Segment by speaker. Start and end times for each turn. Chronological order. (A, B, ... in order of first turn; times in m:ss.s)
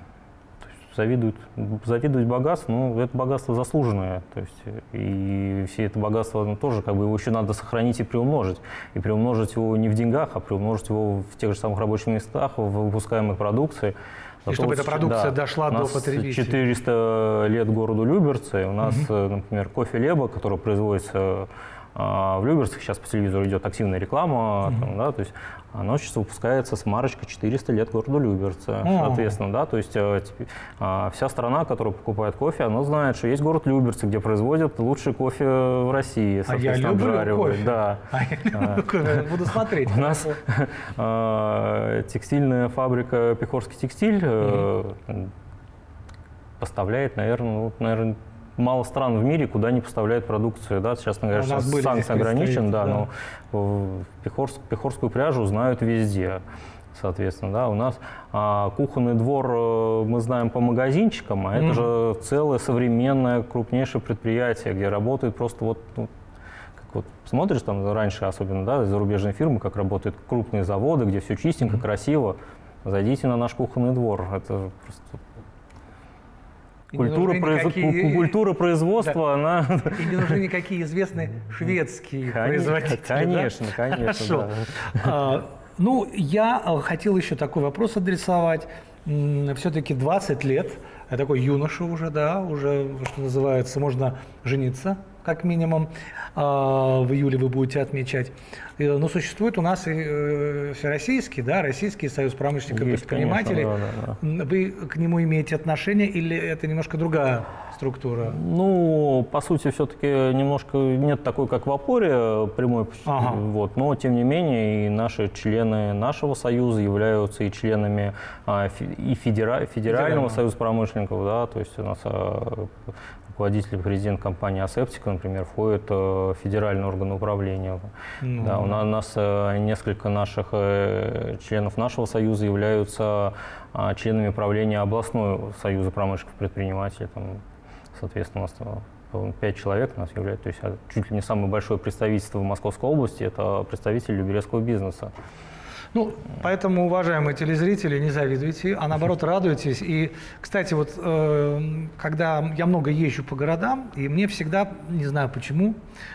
0:00.8-0:39.2 A
0:14.5-0:16.6 B
0:28.8-0:29.4 B
0:36.5-0:40.4 B
0:39.9-0:45.3 A
0:46.6-0:56.4 A
0:51.3-0:53.1 B
0:56.9-1:06.1 A
1:01.6-1:01.9 B
1:06.8-1:15.2 A
1:16.9-1:18.4 B
1:16.9-1:20.4 A
1:19.9-1:48.4 B
1:22.3-1:25.1 A
1:42.7-1:44.2 A
1:48.3-2:02.8 A
1:53.0-1:53.4 B
1:59.9-2:00.4 B
2:03.3-2:25.1 A
2:08.2-2:08.8 B
2:25.9-2:35.8 B